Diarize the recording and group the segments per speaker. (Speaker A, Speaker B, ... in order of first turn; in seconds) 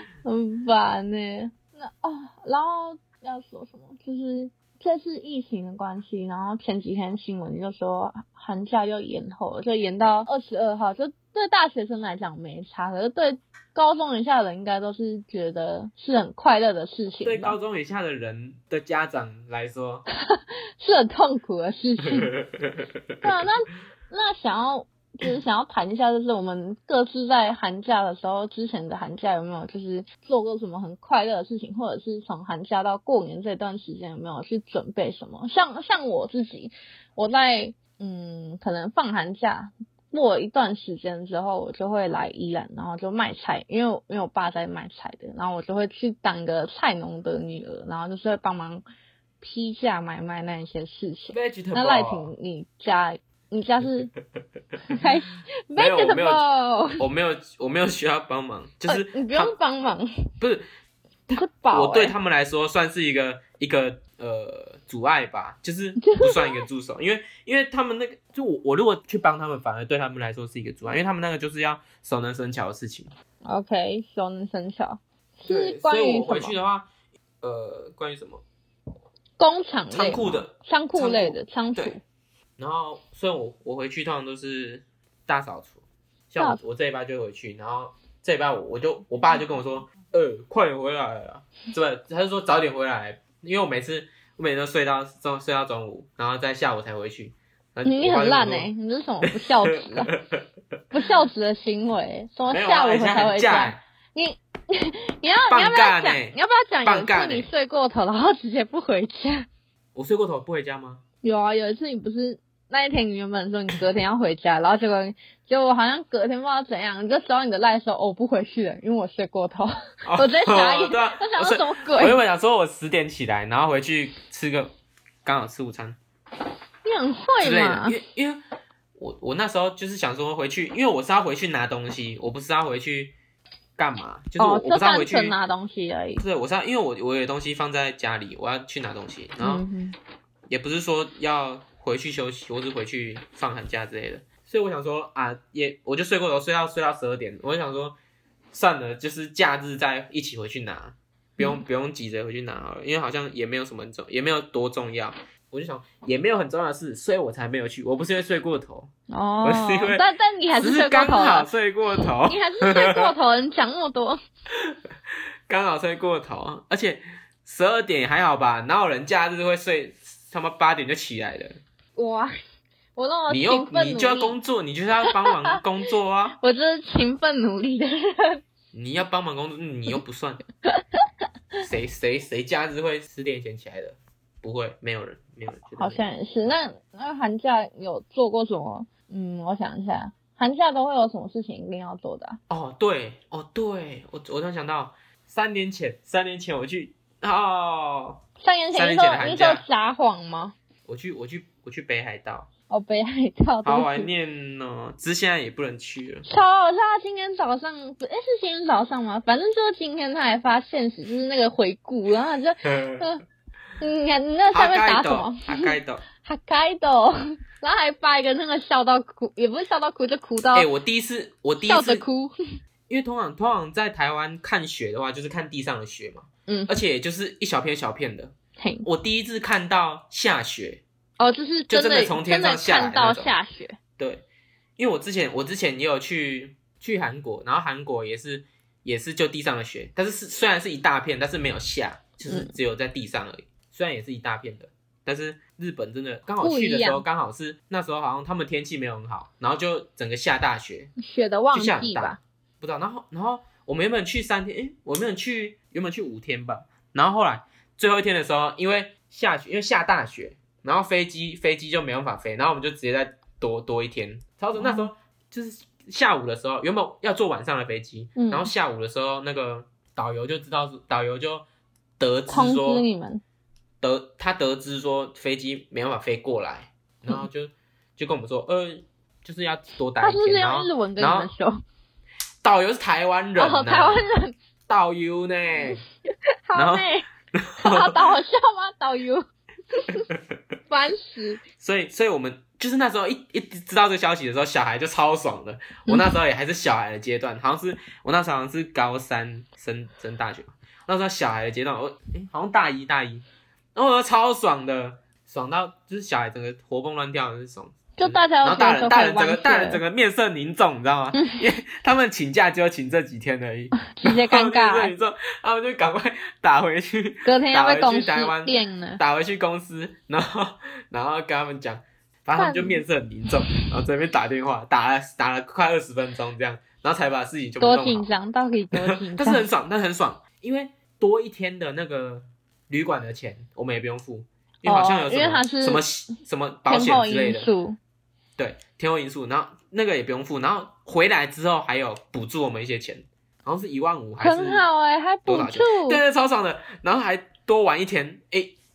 Speaker A: 0.2-17.6, 20.3-22.3, 23.2-48.8, 49.4-54.1, 54.9-57.0, 58.9-60.1, 61.3-62.1, 66.0-66.6, 73.4-76.6, 79.4-82.0, 97.8-100.1, 100.9-109.5, 111.2-122.2, 126.8-128.0, 134.4-136.2, 139.4-139.9, 159.1-161.5, 162.2-164.2, 171.9-172.3, 172.9-174.4, 175.1-175.6, 176.3-178.4, 185.8-192.4, 198.4-200.6, 202.7-204.1, 206.2-213.2, 213.8-220.7, 221.6-222.3, 226.5-226.7, 228.6-228.9, 231.2-233.8, 242.3-242.5, 246.4-247.0, 251.0-252.2, 264.6-264.9, 268.1-268.5, 272.3-273.2, 280.0-281.5, 283.4-284.4, 285.7-287.1, 287.6-290.1, 290.7-291.4, 295.9-296.2, 308.0-309.8, 311.1-311.4, 313.8-314.9, 317.2-319.0, 322.4-322.8, 327.6-329.5, 334.6-335.8, 336.7-337.8, 344.2-346.0
Speaker B: 17.2-20.1, 22.3-22.9, 51.3-52.3, 55.7-56.4, 57.0-59.5, 60.4-60.6, 61.3-73.1, 75.5-76.9, 77.4-78.4, 79.9-81.9, 82.6-98.7, 99.2-100.4, 102.5-103.8, 105.5-107.5, 109.9-111.0, 120.0-124.7, 125.2-126.0, 127.4-128.4, 129.0-133.1, 133.8-135.3, 136.2-139.6, 140.5-148.0, 148.5-158.9, 159.4-160.1, 160.6-163.1, 165.5-171.6, 173.3-176.4, 178.7-180.4, 181.6-186.5, 192.5-199.6, 200.8-202.5, 203.6-206.2, 212.6-213.1, 214.5-216.0, 220.5-222.0, 222.9-228.3, 228.8-230.8, 231.7-233.3, 234.0-234.2, 234.8-250.9, 251.5-271.4, 272.0-272.9, 273.8-281.3, 282.4-284.0, 284.7-285.8, 286.6-288.0, 291.6-328.1, 328.7-337.5, 338.4-344.6, 345.2-348.5